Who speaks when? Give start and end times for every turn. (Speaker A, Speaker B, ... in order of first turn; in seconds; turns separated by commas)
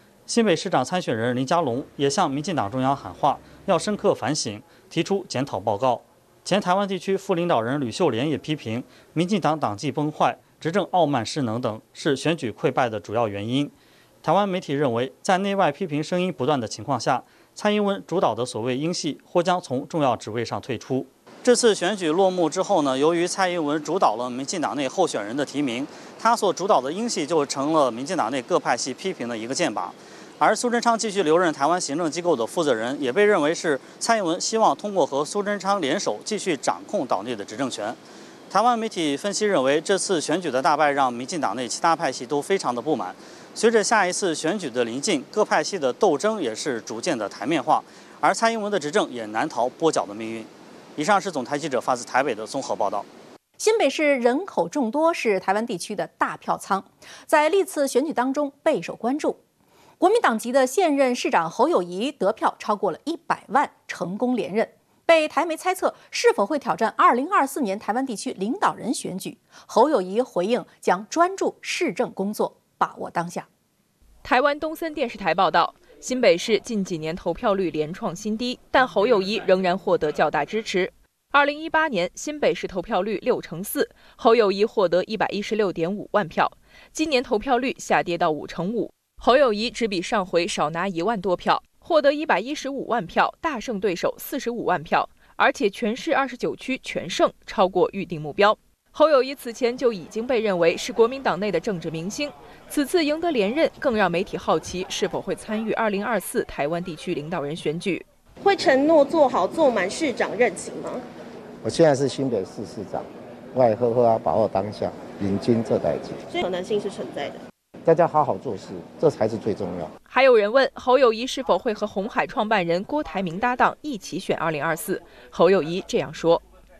Speaker A: 0.3-38.0, Speaker A: 38.5-53.1, Speaker B: 53.6-59.4, Speaker B: 60.0-73.5, Speaker C: 74.2-108.0, Speaker D: 108.4-111.0, Speaker E: 111.6-116.2, Speaker D: 116.3-117.4, Speaker E: 117.8-119.9, Speaker C: 120.1-126.4